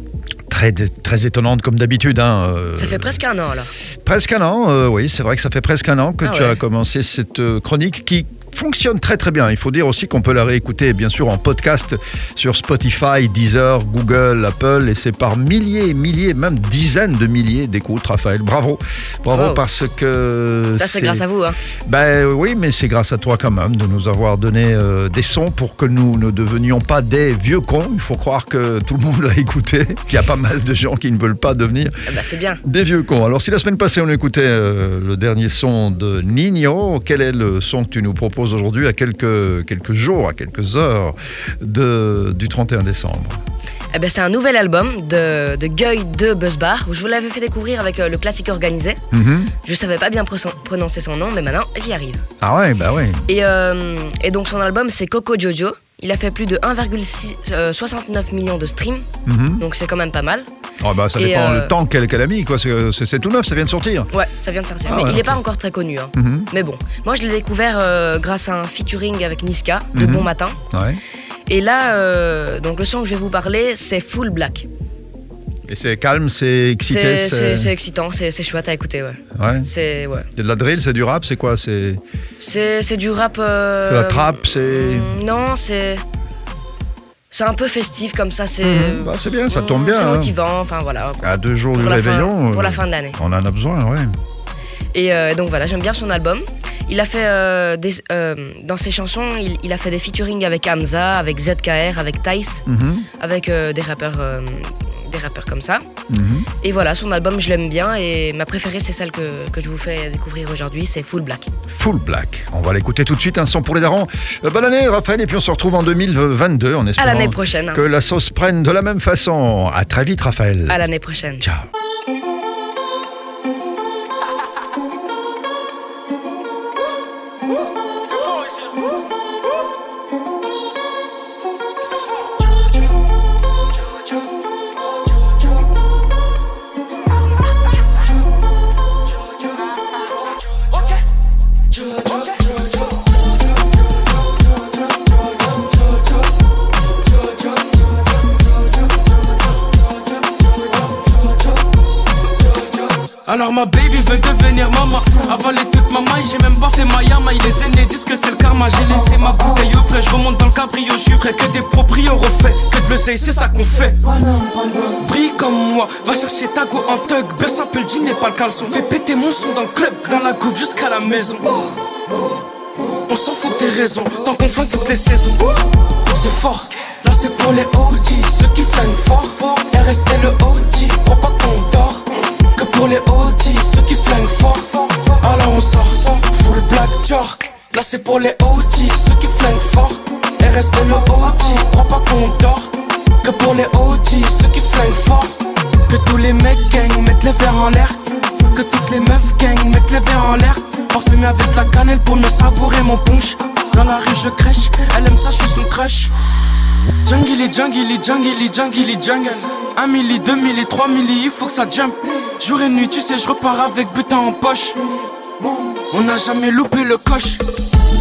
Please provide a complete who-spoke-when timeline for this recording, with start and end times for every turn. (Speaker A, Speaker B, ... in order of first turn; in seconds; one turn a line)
Speaker A: 0.5-3.2
Speaker B: 2.7-3.7
Speaker A: 4.0-21.2
Speaker B: 6.2-6.6
Speaker B: 19.3-19.6
Speaker B: 20.8-21.6
Speaker A: 21.9-31.9
Speaker B: 32.1-32.6
Speaker A: 32.6-43.4
Speaker B: 43.9-49.0
Speaker A: 49.1-49.5
Speaker B: 49.6-52.2
Speaker A: 52.4-53.2
Speaker B: 53.3-59.0
Speaker A: 59.2-59.6
Speaker B: 59.6-60.5
Speaker A: 60.8-64.1
Speaker B: 61.1-61.7
Speaker B: 64.1-70.5
Speaker A: 64.9-65.4
Speaker A: 66.1-66.5
Speaker A: 69.9-71.0
Speaker B: 71.5-74.7
Speaker A: 75.7-77.7
Speaker B: 76.8-80.3
Speaker A: 79.3-79.7
Speaker A: 80.3-82.0
Speaker B: 82.4-86.0
Speaker A: 83.9-85.2
Speaker B: 87.3-93.2
Speaker A: 88.6-90.3
Speaker A: 91.2-94.2
Speaker B: 94.9-102.6
Speaker A: 102.7-103.1
Speaker B: 103.2-105.8
Speaker A: 106.1-106.5
Speaker B: 106.6-111.5
Speaker A: 111.7-120.8
Speaker B: 117.0-117.8
Speaker B: 120.7-121.4
Speaker A: 121.4-121.7
Speaker C: 153.2-171.7
Speaker C: 173.1-206.1
Speaker C: 207.0-215.0
Speaker C: 215.5-217.4